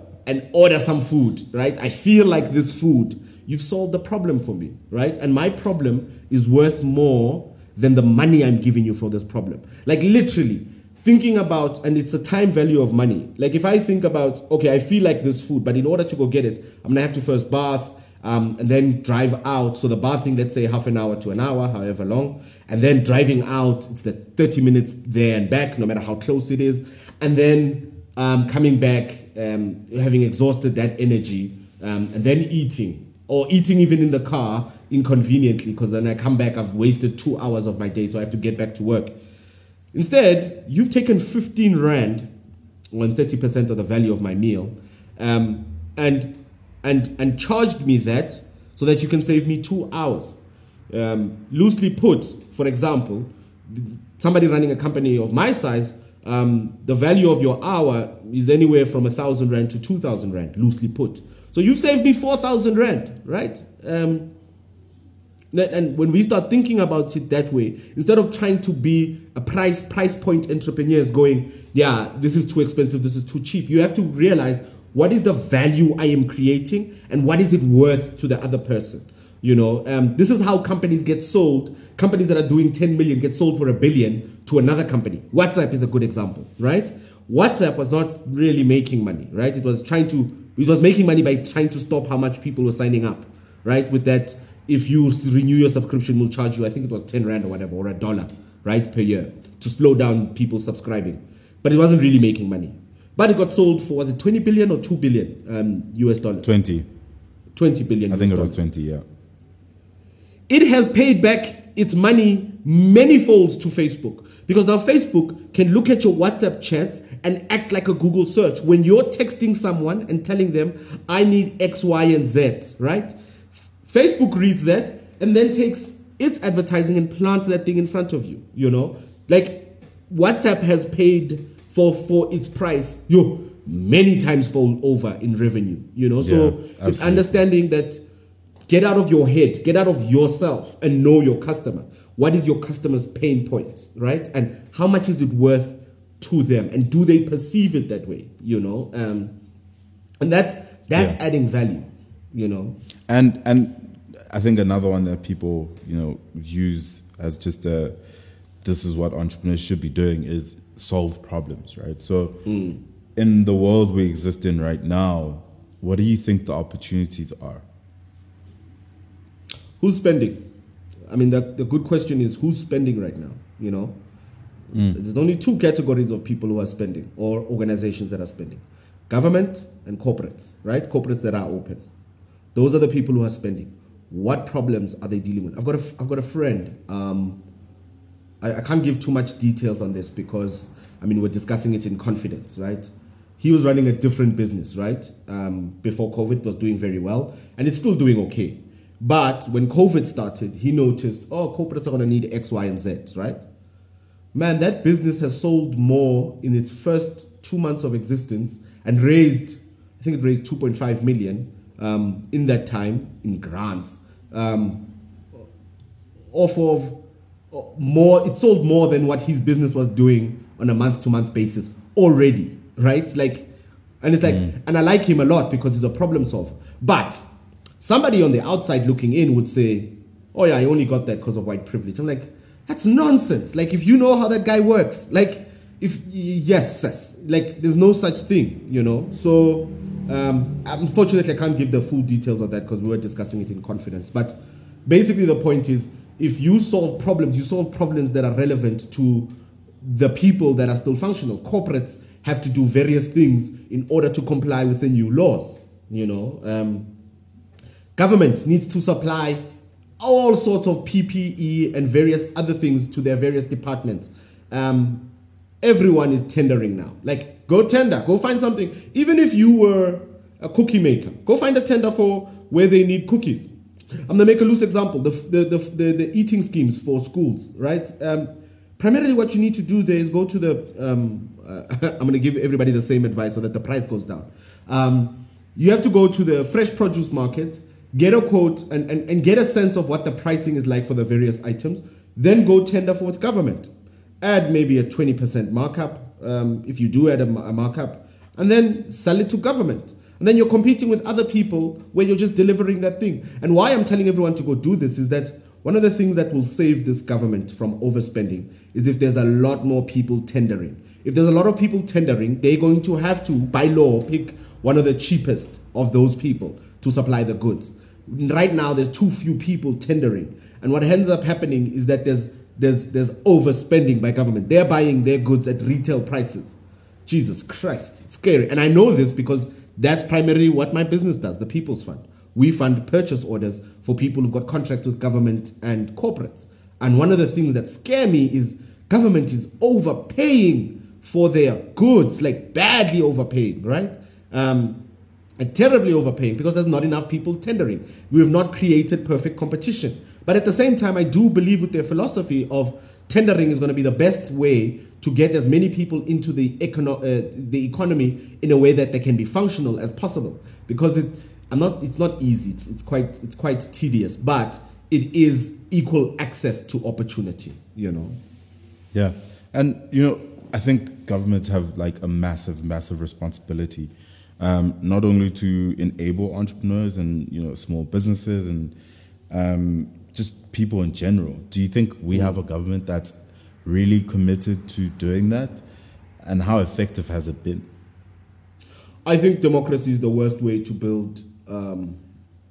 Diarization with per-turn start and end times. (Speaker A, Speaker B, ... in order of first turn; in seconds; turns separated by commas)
Speaker A: 0.3-39.1, Speaker A: 39.9-42.3, Speaker A: 42.9-46.3, Speaker A: 46.8-50.4, Speaker A: 50.9-64.3, Speaker A: 65.5-106.5, Speaker B: 106.4-106.9, Speaker A: 107.6-108.6, Speaker B: 108.1-109.0, Speaker A: 110.5-123.1, Speaker A: 123.7-138.0, Speaker B: 136.2-137.4, Speaker A: 138.7-149.3, Speaker A: 150.2-152.8, Speaker B: 153.1-158.0, Speaker B: 158.6-162.4, Speaker A: 162.5-162.8, Speaker B: 163.2-167.7, Speaker A: 169.8-170.4, Speaker A: 171.1-173.9, Speaker A: 174.8-181.8, Speaker A: 182.6-187.4, Speaker A: 188.4-192.9, Speaker A: 193.4-203.4, Speaker A: 204.3-214.8, Speaker A: 216.3-217.0, Speaker A: 217.5-223.5, Speaker A: 224.0-227.2, Speaker B: 224.2-224.5, Speaker A: 227.8-249.3, Speaker A: 249.8-256.9, Speaker A: 258.0-259.4, Speaker A: 260.0-265.0, Speaker A: 265.6-273.5, Speaker A: 274.1-293.7, Speaker A: 294.2-344.8, Speaker A: 345.4-368.2, Speaker B: 368.9-378.7, Speaker B: 379.3-383.1, Speaker B: 383.6-385.6, Speaker B: 386.2-387.7, Speaker A: 389.1-392.0